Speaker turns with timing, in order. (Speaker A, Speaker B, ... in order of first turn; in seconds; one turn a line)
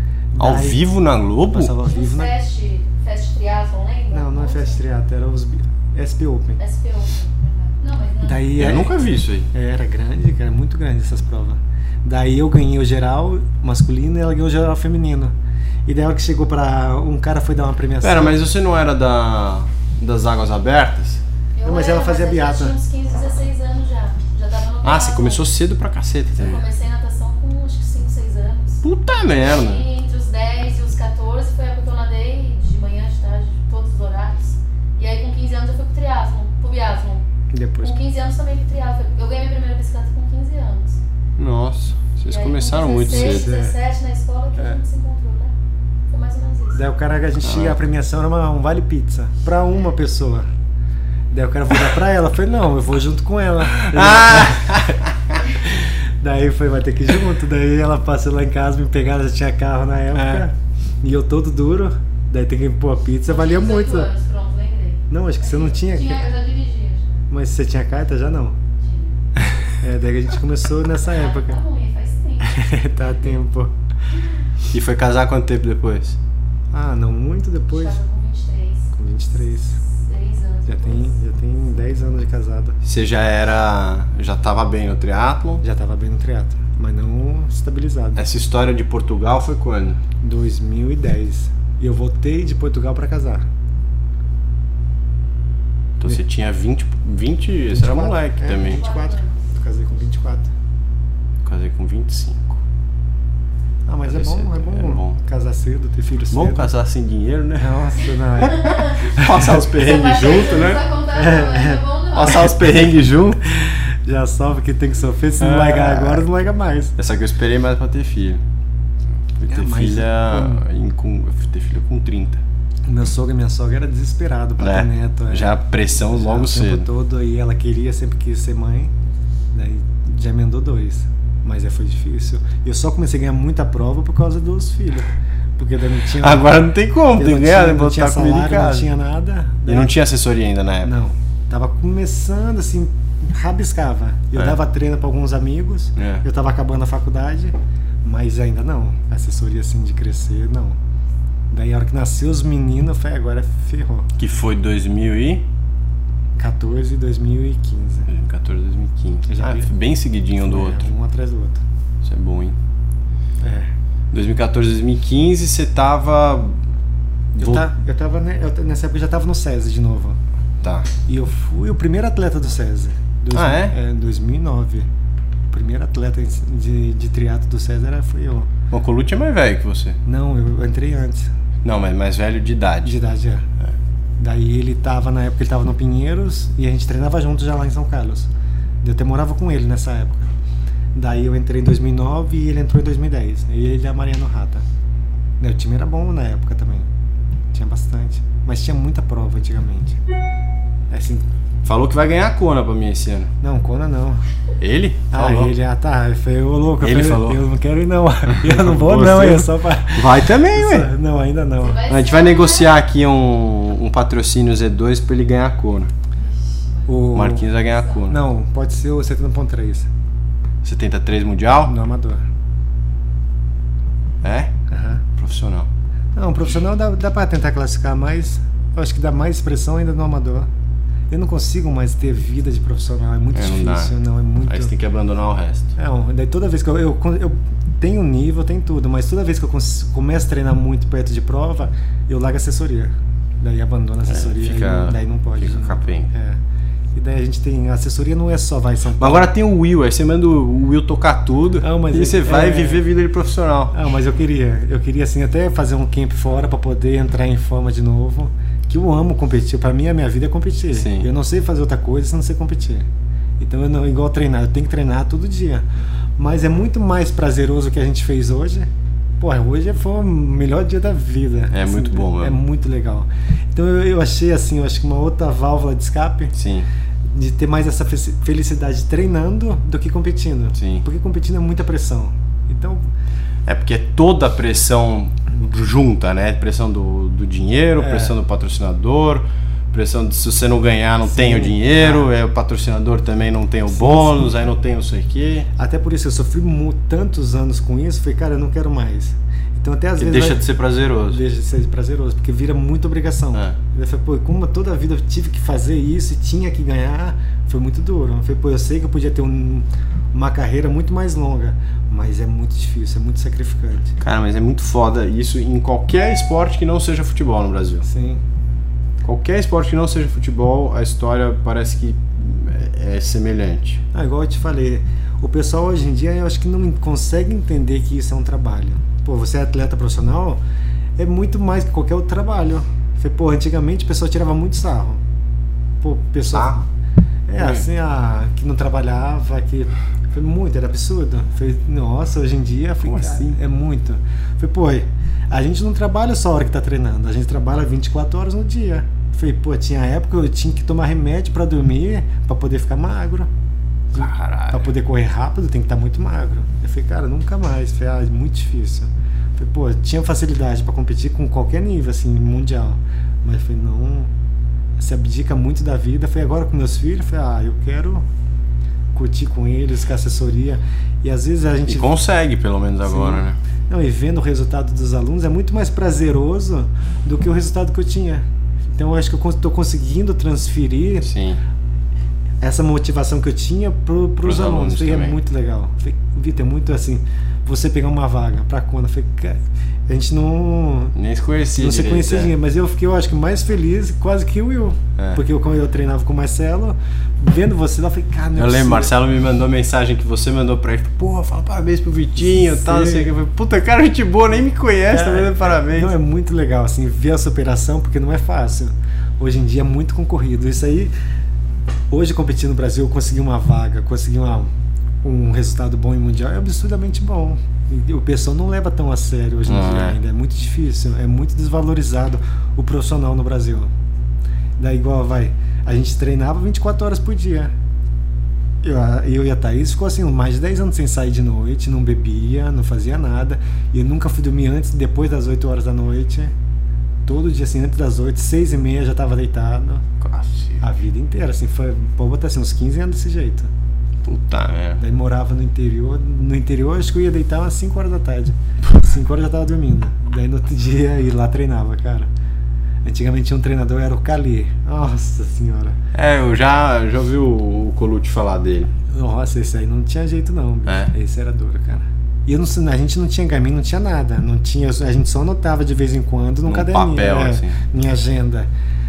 Speaker A: 0.3-0.8
Speaker B: 0.4-1.7
Speaker A: 1.5-2.3
Speaker C: 1.8-4.8
Speaker A: 4.1-6.6
Speaker C: 6.6-8.6
Speaker A: 8.2-9.0
Speaker B: 8.6-9.5
Speaker A: 9.5-15.3
Speaker A: 15.8-18.4
Speaker B: 18.0-21.2
Speaker C: 21.5-25.5
Speaker A: 21.6-22.8
Speaker B: 24.8-26.6
Speaker C: 26.4-28.8
Speaker B: 28.8-29.8
Speaker C: 29.4-37.2
Speaker A: 37.5-38.0
Speaker C: 37.8-41.0
Speaker B: 41.4-43.5
Speaker C: 42.3-45.5
Speaker A: 43.1-43.7
Speaker C: 46.1-46.8
Speaker A: 46.7-50.5
Speaker B: 47.4-47.8
Speaker A: 51.3-55.0
Speaker B: 53.8-55.4
Speaker A: 55.6-64.1
Speaker B: 60.2-60.4
Speaker C: 63.2-67.2
Speaker A: 65.1-66.2
Speaker A: 67.3-68.6
Speaker C: 68.8-69.2
Speaker A: 69.6-71.6
Speaker C: 71.0-72.6
Speaker A: 72.4-73.7
Speaker B: 74.7-76.2
Speaker A: 76.7-78.0
Speaker C: 77.7-78.9
Speaker A: 78.9-79.8
Speaker C: 79.9-81.1
Speaker A: 80.7-82.8
Speaker B: 82.8-85.6
Speaker A: 85.6-88.2
Speaker B: 88.2-90.0
Speaker A: 90.2-93.4
Speaker B: 96.0-98.8
Speaker A: 97.7-100.5
Speaker C: 98.5-99.4
Speaker B: 101.4-102.6
Speaker A: 103.9-106.7
Speaker B: 104.1-105.2
Speaker B: 106.3-107.9
Speaker A: 107.6-109.6
Speaker B: 108.4-110.8
Speaker C: 108.4-109.0
Speaker C: 109.7-112.5
Speaker A: 111.1-111.8
Speaker B: 112.1-113.5
Speaker A: 113.5-116.9
Speaker B: 115.4-116.2
Speaker B: 117.0-118.4
Speaker B: 119.4-122.4
Speaker A: 119.5-120.6
Speaker A: 122.9-128.9
Speaker B: 124.6-126.8
Speaker A: 129.5-136.6
Speaker B: 136.2-138.9
Speaker A: 137.1-139.9
Speaker B: 139.7-140.9
Speaker A: 140.8-150.8
Speaker B: 146.0-146.2
Speaker A: 151.5-154.1
Speaker B: 154.2-155.4
Speaker A: 156.4-158.1
Speaker B: 158.1-160.8
Speaker A: 159.3-159.7
Speaker A: 160.4-161.6
Speaker B: 162.0-162.6
Speaker A: 163.4-163.7
Speaker B: 164.1-166.6
Speaker B: 167.3-167.7
Speaker A: 167.4-170.2
Speaker B: 170.6-170.9
Speaker A: 171.1-174.9
Speaker B: 173.3-173.7
Speaker A: 175.5-178.5
Speaker B: 178.7-180.0
Speaker A: 180.0-181.3
Speaker B: 181.6-182.9
Speaker A: 182.8-183.4
Speaker A: 184.2-188.3
Speaker A: 188.8-190.3
Speaker A: 190.9-194.6
Speaker A: 195.4-196.9
Speaker A: 197.5-200.0
Speaker A: 200.9-201.2
Speaker B: 201.6-203.3
Speaker A: 203.4-204.2
Speaker B: 204.6-205.5
Speaker A: 205.1-211.8
Speaker B: 206.8-207.4
Speaker B: 208.3-210.9
Speaker C: 211.6-212.8
Speaker B: 211.9-215.9
Speaker C: 216.2-216.9
Speaker A: 216.8-217.5
Speaker B: 217.1-218.2
Speaker C: 217.7-218.0
Speaker A: 218.1-219.9
Speaker B: 220.6-221.7
Speaker A: 221.6-222.2
Speaker B: 224.2-224.5
Speaker A: 224.7-225.0
Speaker B: 225.2-225.7
Speaker A: 226.1-230.5
Speaker A: 231.1-234.7
Speaker B: 233.3-233.9
Speaker B: 234.5-235.7
Speaker A: 235.8-246.4
Speaker B: 244.1-246.1
Speaker A: 246.9-249.3
Speaker B: 249.0-253.7
Speaker A: 251.6-252.8
Speaker A: 253.7-262.9
Speaker B: 260.7-261.1
Speaker A: 263.4-265.6
Speaker A: 266.2-268.7
Speaker A: 269.2-276.3
Speaker B: 271.5-272.4
Speaker B: 276.3-276.7
Speaker A: 277.1-282.8
Speaker B: 280.6-280.8
Speaker B: 283.4-295.5
Speaker A: 287.8-288.1
Speaker A: 291.1-292.1
Speaker A: 293.7-294.4
Speaker A: 295.6-300.4
Speaker B: 300.0-301.2
Speaker A: 301.1-314.0
Speaker B: 314.0-317.8
Speaker A: 317.8-318.2
Speaker B: 319.0-323.8
Speaker A: 323.9-330.4
Speaker A: 331.0-335.0
Speaker A: 335.8-336.6
Speaker B: 336.3-336.6
Speaker A: 337.3-353.3
Speaker B: 337.4-337.6
Speaker B: 342.8-343.4
Speaker B: 353.9-354.7
Speaker A: 353.9-364.1
Speaker A: 364.8-368.0
Speaker A: 368.9-372.0
Speaker B: 371.7-373.4
Speaker A: 372.8-378.2
Speaker A: 378.8-381.1
Speaker B: 381.0-381.4
Speaker A: 382.4-390.9
Speaker B: 384.2-385.2
Speaker B: 390.9-392.3
Speaker A: 391.6-398.9
Speaker B: 398.4-405.9
Speaker A: 402.3-403.1
Speaker A: 404.9-410.9
Speaker A: 411.9-414.5
Speaker A: 415.0-423.7
Speaker B: 419.4-420.0
Speaker A: 424.6-427.5
Speaker A: 428.6-436.3
Speaker A: 437.1-439.8
Speaker B: 440.0-440.6
Speaker A: 440.6-443.5
Speaker B: 444.0-444.8
Speaker A: 444.8-452.1
Speaker A: 452.8-455.8
Speaker B: 455.9-458.7
Speaker A: 458.9-468.5
Speaker B: 460.7-460.9
Speaker B: 466.4-467.5